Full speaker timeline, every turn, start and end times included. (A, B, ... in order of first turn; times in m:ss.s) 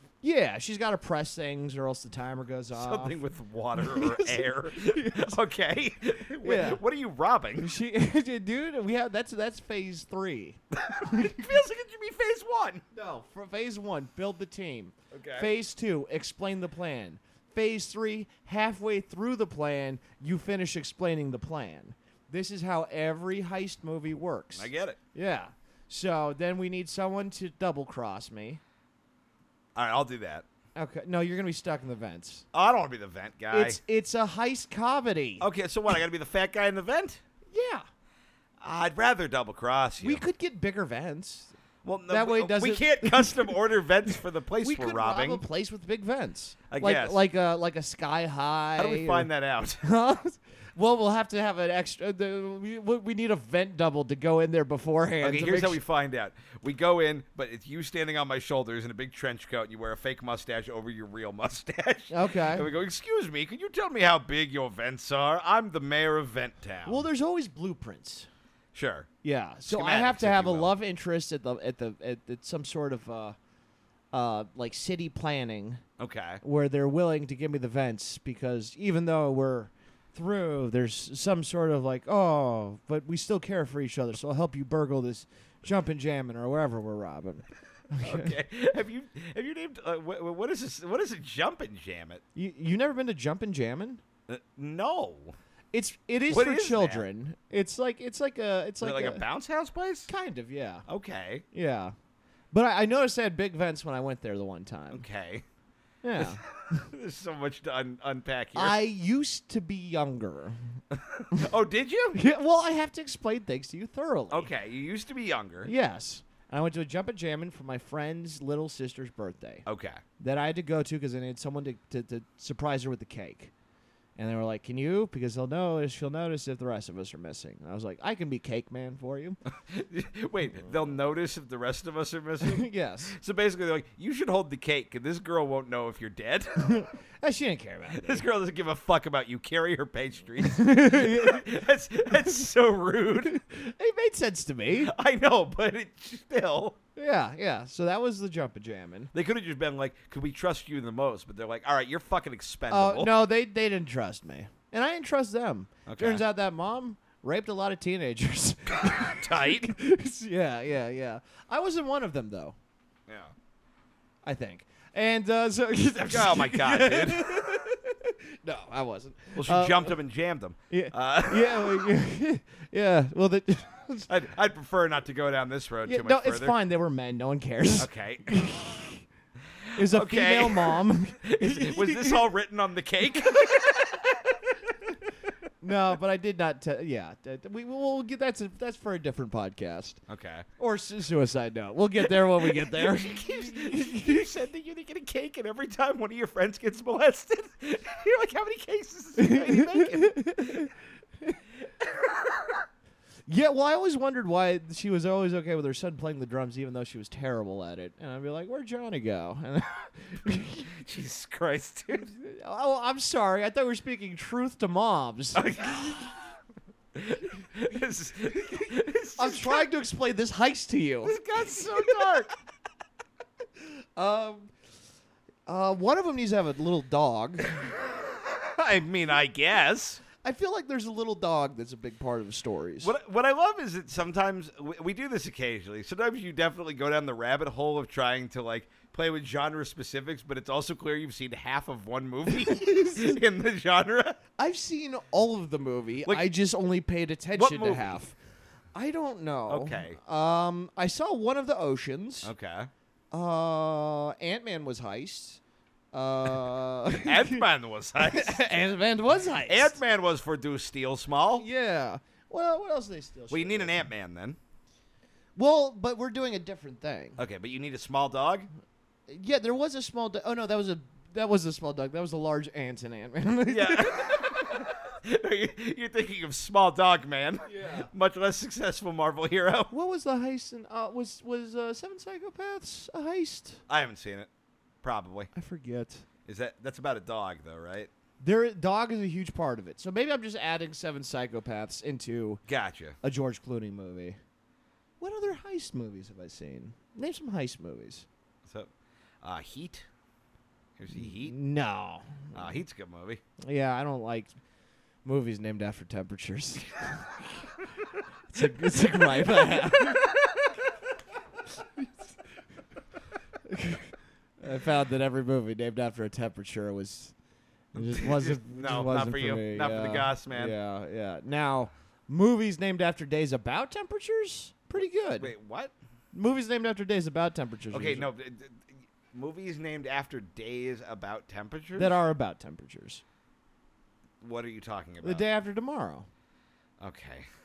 0:00.2-0:03.2 A
0:02.7-0:07.7 B
0:03.8-0:05.4 A
0:06.4-0:06.8 A
0:07.6-0:11.5 A
0:10.7-0:12.8 B
0:12.9-0:28.6 A
0:15.1-0:15.5 B
0:24.5-0:25.0 B
0:29.8-0:30.4 B
0:30.8-0:32.5 A
0:32.5-0:33.8 B
0:33.5-0:35.5 A
0:35.4-0:37.2 B
0:37.5-0:37.8 A
0:38.6-0:40.2 B
0:40.0-0:41.6 A
0:41.8-0:45.4 B
0:42.1-0:43.6 A
0:44.6-0:49.3 A
0:46.7-0:47.2 B
0:48.8-0:49.8 B
0:49.8-0:55.8 A
0:55.2-1:07.0 B
1:02.1-1:02.6 A
1:06.9-1:08.3 A
1:08.7-1:09.1 B
1:09.2-1:13.4 A
1:09.7-1:10.7 B
1:14.1-1:15.8 A
1:16.0-1:16.4 B
1:16.4-1:28.4 A
1:28.0-1:32.2 B
1:32.4-1:34.0 A
1:34.3-1:35.4 B
1:35.7-1:39.2 A
1:36.3-1:37.0 B
1:38.8-1:40.1 B
1:40.1-1:40.9 A
1:40.9-1:41.4 B
1:41.5-1:41.9 A
1:42.5-1:45.0 A
1:44.9-1:45.4 B
1:46.0-1:46.9 A
1:46.2-1:48.8 B
1:48.6-1:50.6 A
1:50.9-1:52.2 B
1:52.1-1:54.5 A
1:54.3-1:55.7 B
1:55.6-1:59.6 A
1:59.6-2:00.0 B
2:00.2-2:03.5 A
2:04.2-2:09.4 A
2:09.5-2:16.5 B
2:12.4-2:13.2 A
2:16.6-2:18.2 A
2:17.9-2:23.4 B
2:20.4-2:21.4 A
2:23.3-2:24.9 A
2:24.8-2:26.8 B
2:27.0-2:29.1 A
2:29.1-2:33.2 B
2:32.7-2:42.6 A
2:35.9-2:36.2 B
2:38.7-2:39.7 B
2:43.1-2:43.3 B
2:44.2-2:50.0 A
2:46.1-2:47.3 B
2:49.3-2:51.9 B
2:50.7-2:54.1 A
2:54.1-2:56.5 B
2:55.8-2:59.0 A
2:57.8-2:58.3 B
2:59.8-3:02.2 A
2:59.8-3:04.4 B
3:05.6-3:10.0 A
3:10.1-3:10.5 B
3:10.6-3:14.2 A
3:12.2-3:20.6 B
3:19.2-3:20.7 A
3:21.8-3:22.6 B
3:23.3-3:30.7 A
3:30.7-3:32.1 B
3:31.9-3:35.4 A
3:35.3-3:36.3 B
3:36.9-3:39.7 B
3:39.2-3:41.2 A
3:41.0-3:42.3 B
3:44.0-3:44.5 A
3:45.5-3:47.6 A
3:48.2-3:50.0 B
3:50.2-3:52.9 A
3:52.8-4:04.2 B
4:02.5-4:03.2 A
4:04.4-4:08.2 A
4:07.3-4:08.0 B
4:08.8-4:12.3 A
4:09.5-4:10.0 B
4:12.2-4:12.7 B
4:13.1-4:15.4 A
4:15.9-4:17.4 A
4:17.0-4:18.4 B
4:18.0-4:19.8 A
4:19.5-4:21.4 B
4:21.4-4:23.8 A
4:23.3-4:24.4 B
4:25.4-4:27.2 A
4:27.2-4:28.5 B
4:29.1-4:34.4 A
4:33.5-4:39.7 B
4:37.5-4:37.9 A
4:39.7-4:43.6 A
4:43.7-4:44.3 B
4:44.8-4:45.3 B
4:45.3-4:46.0 A
4:46.2-4:47.9 B
4:48.2-4:52.4 A
4:52.5-4:53.0 B
4:53.0-4:54.2 A
4:55.0-4:58.1 A
4:58.4-4:58.7 B
4:59.2-4:59.8 B
5:00.8-5:01.3 B
5:01.0-5:02.6 A
5:02.3-5:03.2 B
5:03.4-5:04.3 A
5:05.0-5:07.5 A
5:08.3-5:10.1 A
5:13.4-5:17.1 A
5:17.7-5:20.5 B
5:17.7-5:25.3 A
5:25.2-5:25.7 B
5:26.1-5:28.1 A
5:27.7-5:32.0 B
5:31.8-5:33.0 A
5:34.2-5:35.2 B
5:35.0-5:36.1 A
5:36.8-5:37.3 B